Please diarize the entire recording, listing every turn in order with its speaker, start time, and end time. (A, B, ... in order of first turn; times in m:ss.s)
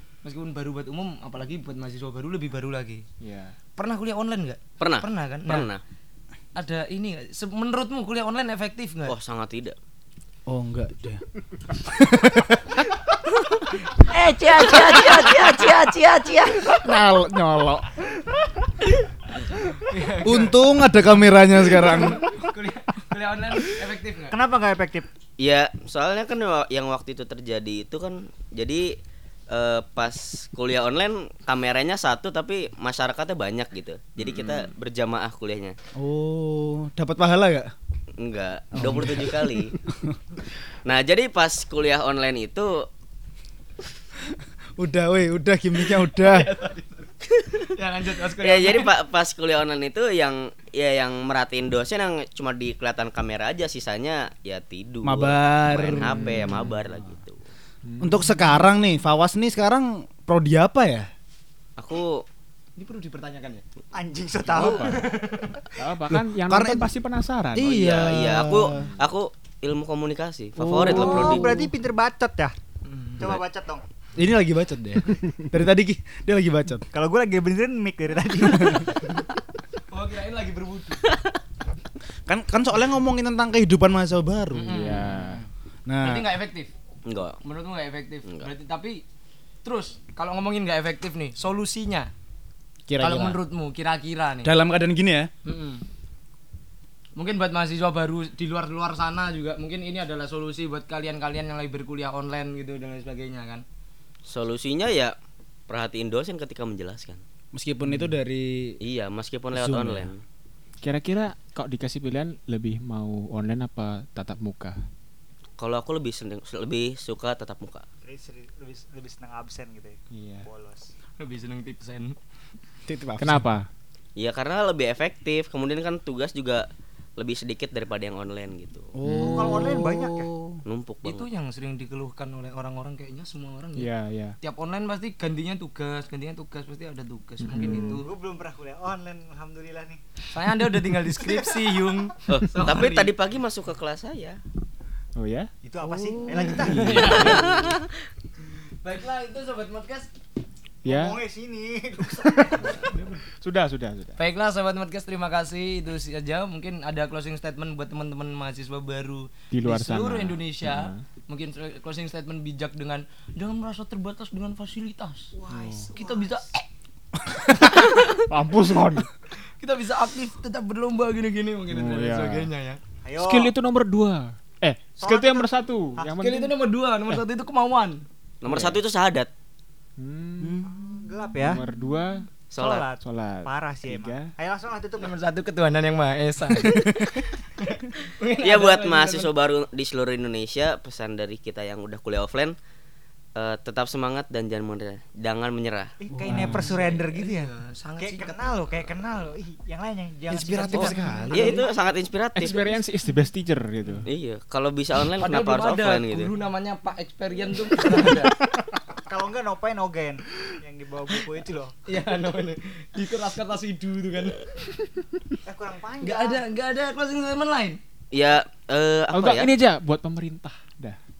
0:00.2-0:03.0 A
0:03.2-0:03.5 B
0:03.8-0:05.7 A
0:04.8-0:05.8 C
0:06.5-0:09.1 A
0:09.1-0:09.8 C
0:10.5-0:11.2 D
0:11.8-0:12.8 D
0:13.9-0:16.7 A
0:14.8-0:15.5 D
0:16.7-0:18.2 D
0:19.5-0:20.6 A
0:20.2-0:22.2 D
0:21.6-0:24.4 A
0:24.3-0:25.1 E
0:25.4-0:28.9 C
0:29.5-0:35.8 C
0:34.2-0:34.7 B
0:36.0-0:37.7 D
0:38.2-0:39.8 C
0:38.8-0:40.2 D
0:40.9-0:42.8 C
0:44.3-0:46.5 D
0:46.0-0:48.9 A
0:48.4-0:57.4 C
0:55.0-0:56.2 D
0:56.0-0:56.7 B
0:57.9-0:58.2 B
0:58.0-1:01.1 D
1:01.8-1:02.2 C
1:02.8-1:03.6 A
1:03.9-1:05.7 E
1:04.5-1:05.0 B
1:05.8-1:07.7 B
1:06.1-1:06.9 D
1:07.5-1:08.9 D
1:07.6-1:11.5 C
1:10.6-1:11.7 D
1:10.8-1:12.6 E
1:12.9-1:13.3 A
1:13.2-1:13.8 E
1:14.2-1:16.9 D
1:16.9-1:19.2 E
1:18.4-1:18.9 D
1:19.9-1:21.0 A
1:22.3-1:24.9 D
1:24.5-1:25.4 A
1:24.7-1:25.4 B
1:25.9-1:26.3 D
1:26.0-1:26.7 A
1:27.0-1:27.4 C
1:27.4-1:29.0 A
1:29.6-1:32.1 A
1:32.9-1:33.4 D
1:33.0-1:34.6 A
1:34.4-1:35.3 D
1:35.4-1:35.8 A
1:37.2-1:43.6 A
1:44.2-1:45.1 C
1:45.7-1:47.2 C
1:47.5-1:48.8 D
1:47.9-1:48.1 B
1:48.8-1:50.2 C
1:49.5-1:50.1 D
1:50.8-1:54.8 B
1:55.6-1:57.8 C
1:58.0-2:00.9 E
2:00.1-2:00.5 B
2:01.2-2:02.2 A
2:02.9-2:03.4 D
2:03.2-2:03.7 B
2:04.2-2:06.6 C
2:07.2-2:08.9 C
2:08.9-2:10.6 D
2:09.0-2:09.6 B
2:09.3-2:10.3 E
2:10.6-2:11.2 C
2:11.0-2:13.9 A
2:13.8-2:14.4 B
2:14.4-2:18.1 A
2:17.4-2:18.0 B
2:17.6-2:20.0 E
2:20.3-2:23.1 A
2:21.2-2:21.7 E
2:22.3-2:24.4 C
2:25.2-2:25.5 B
2:25.6-2:27.5 E
2:26.4-2:27.6 B
2:26.5-2:27.7 A
2:27.5-2:27.8 C
2:28.8-2:30.1 A
2:30.8-2:32.8 E
2:30.8-2:31.2 B
2:32.6-2:33.2 A
2:33.4-2:34.2 B
2:34.2-2:46.6 A
2:39.5-2:41.0 B
2:45.4-2:46.4 E
2:45.5-2:45.9 B
2:48.3-2:49.1 B
2:49.6-2:52.8 A
2:51.7-2:52.5 B
2:53.0-2:53.5 E
2:53.2-2:56.5 B
2:55.0-2:56.2 E
2:56.2-2:58.0 A
2:58.4-2:59.3 C
2:58.5-2:58.8 B
3:00.0-3:00.6 B
3:00.6-3:01.6 E
3:01.4-3:02.2 B
3:02.5-3:02.9 C
3:02.6-3:05.1 E
3:03.0-3:04.3 B
3:05.0-3:09.3 A
3:08.4-3:12.6 C
3:13.4-3:15.9 C
3:16.0-3:21.6 E
3:16.3-3:16.7 B
3:16.3-3:18.5 A
3:20.3-3:21.6 D
3:20.8-3:22.8 C
3:22.3-3:24.1 B
3:24.1-3:26.3 C
3:25.2-3:28.3 A
3:28.1-3:31.8 E
3:31.9-3:34.5 A
3:35.4-3:36.4 E
3:36.0-3:37.8 A
3:38.1-3:39.5 C
3:39.1-3:41.0 B